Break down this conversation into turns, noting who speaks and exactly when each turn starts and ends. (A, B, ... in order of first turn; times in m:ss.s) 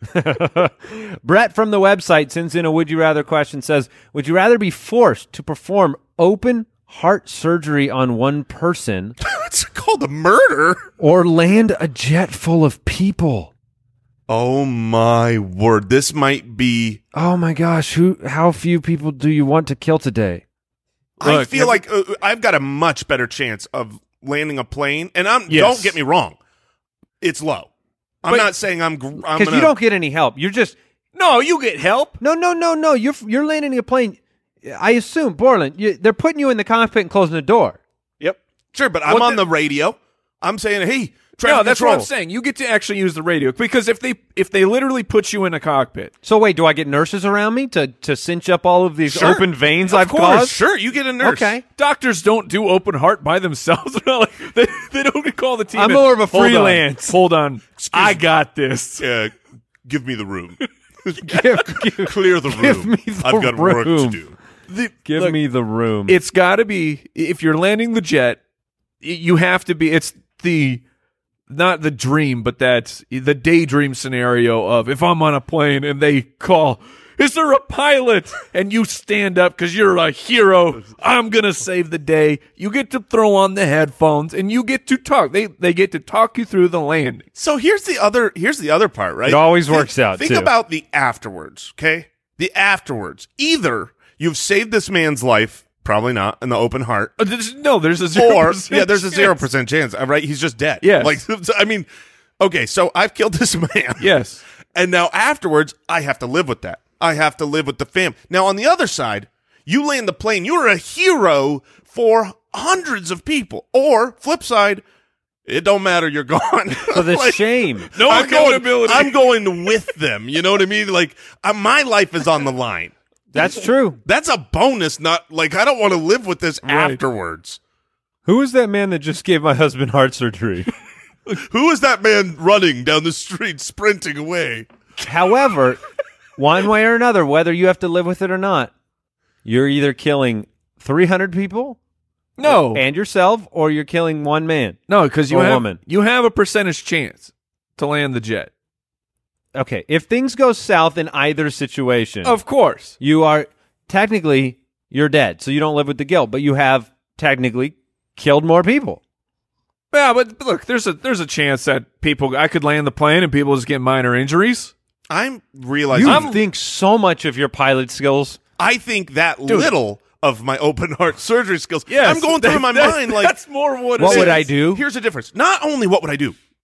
0:00.1-0:09.2 A
0:09.2-0:10.8 B
0:11.0-0:13.5 A
0:14.3-0:17.0 B
0:17.1-0:20.4 A
0:21.2-0:26.4 B
0:21.2-0:21.8 C
0:25.5-0:26.0 C
0:27.2-0:27.7 B
0:28.2-0:29.7 B
0:29.2-0:30.8 A
0:31.2-0:32.2 C
0:32.2-0:37.8 A
0:38.7-0:42.1 B
0:39.1-0:39.4 C
0:41.4-0:46.1 C
0:46.2-0:50.6 A
0:49.1-0:51.6 B
0:51.2-0:51.6 A
0:51.8-0:59.1 C
0:55.7-0:57.2 A
0:57.8-0:58.2 B
0:59.0-0:59.3 B
0:59.8-1:04.4 B
1:01.2-1:04.2 A
1:04.7-1:05.4 C
1:05.0-1:06.2 A
1:06.1-1:08.4 C
1:09.0-1:10.8 C
1:11.5-1:27.3 C
1:27.4-1:37.2 B
1:29.3-1:30.5 A
1:37.2-1:39.4 C
1:38.1-1:41.9 B
1:40.8-1:41.2 C
1:42.4-1:44.1 B
1:44.0-1:44.4 C
1:44.8-1:54.8 B
1:55.5-2:02.9 B
1:56.9-1:57.9 A
1:58.0-1:59.2 C
2:03.3-2:04.0 A
2:04.0-2:07.6 B
2:06.7-2:07.0 C
2:08.3-2:10.7 A
2:11.3-2:14.7 B
2:15.0-2:15.8 A
2:16.4-2:18.7 A
2:19.4-2:21.8 A
2:22.4-2:22.8 C
2:22.4-2:24.8 A
2:24.9-2:28.5 C
2:25.3-2:25.8 A
2:29.6-2:32.4 A
2:32.2-2:33.0 C
2:33.0-2:39.0 A
2:39.9-2:44.7 C
2:45.1-2:46.4 B
2:45.9-2:48.4 A
2:46.0-2:46.4 C
2:48.6-2:53.4 B
2:49.5-2:49.7 C
2:51.9-2:54.5 C
2:54.0-2:54.8 A
2:54.0-2:56.4 B